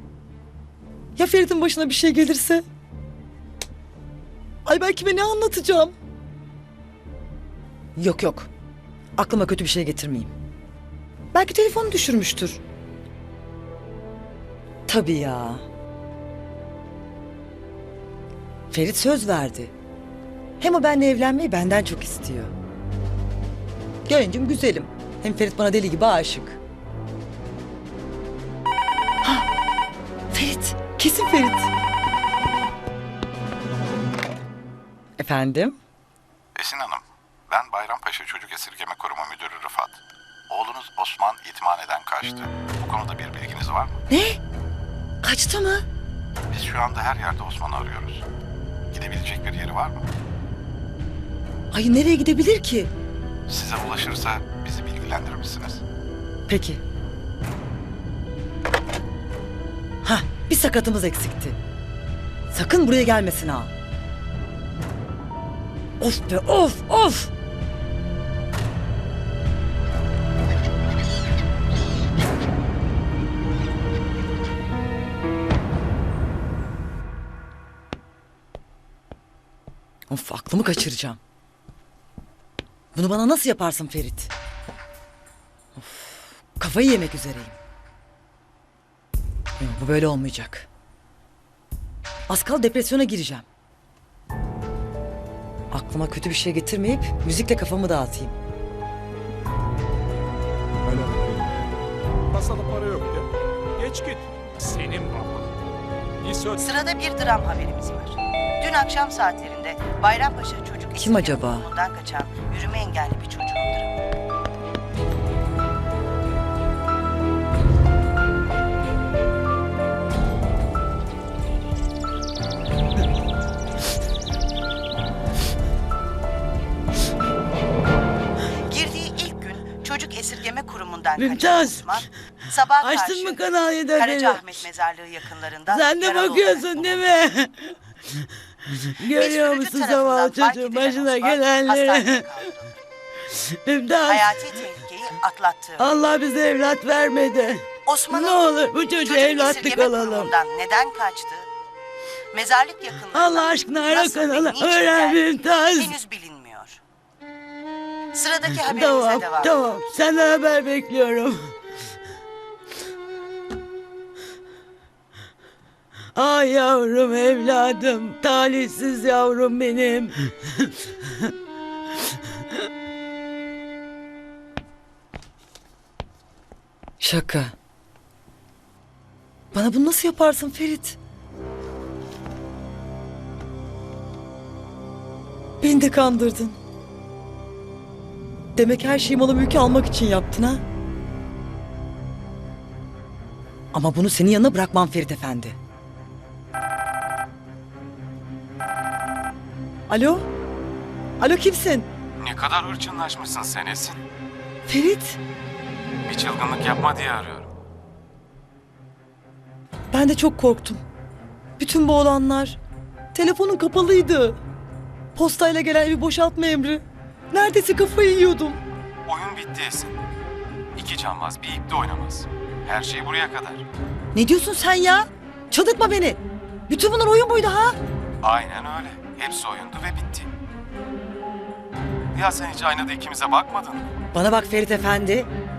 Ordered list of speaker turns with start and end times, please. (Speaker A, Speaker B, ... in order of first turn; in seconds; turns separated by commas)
Speaker A: 1.2-2.6, Speaker A: 4.7-6.0, Speaker A: 8.0-8.5, Speaker A: 9.2-10.3, Speaker A: 11.3-12.6, Speaker A: 14.9-15.7, Speaker A: 18.7-19.7, Speaker A: 20.6-22.5, Speaker A: 24.1-26.6, Speaker A: 29.2-29.5, Speaker A: 30.3-31.7, Speaker A: 35.2-35.8, Speaker B: 36.6-39.9, Speaker B: 40.5-43.9, Speaker A: 44.1-44.4, Speaker A: 45.2-45.9, Speaker B: 46.5-48.1, Speaker B: 49.0-50.0, Speaker A: 51.7-52.9, Speaker B: 53.6-55.7, Speaker A: 56.5-56.8, Speaker A: 60.0-61.6, Speaker A: 62.5-63.7, Speaker A: 66.0-67.3, Speaker A: 80.1-81.2, Speaker A: 83.0-84.3, Speaker A: 85.8-87.6, Speaker A: 89.6-90.7, Speaker A: 92.3-93.5, Speaker A: 95.7-98.3, Speaker C: 102.4-103.2, Speaker C: 103.8-105.4, Speaker C: 106.2-106.7, Speaker D: 106.5-114.0, Speaker A: 111.0-111.7, Speaker D: 128.6-137.2, Speaker E: 131.2-134.6, Speaker E: 135.7-137.7, Speaker E: 138.9-142.5, Speaker D: 139.0-142.7, Speaker E: 143.7-144.5, Speaker D: 144.0-145.9, Speaker E: 145.8-150.3, Speaker D: 147.9-151.5, Speaker D: 152.3-156.8, Speaker E: 153.1-155.9, Speaker D: 158.1-159.9, Speaker E: 158.5-161.5, Speaker E: 166.2-170.2, Speaker A: 177.0-177.5, Speaker A: 179.5-181.0, Speaker A: 185.6-186.6, Speaker A: 188.6-190.6, Speaker A: 193.7-195.6, Speaker A: 199.9-200.3, Speaker A: 201.2-201.9, Speaker F: 202.2-204.0, Speaker A: 204.7-205.2, Speaker F: 206.1-207.5, Speaker A: 209.9-210.8, Speaker A: 211.6-212.6, Speaker A: 213.1-214.4, Speaker A: 215.2-218.6, Speaker F: 219.1-220.0, Speaker F: 220.8-223.6, Speaker A: 224.1-227.8, Speaker F: 228.2-230.3, Speaker F: 232.1-233.9, Speaker A: 234.1-235.3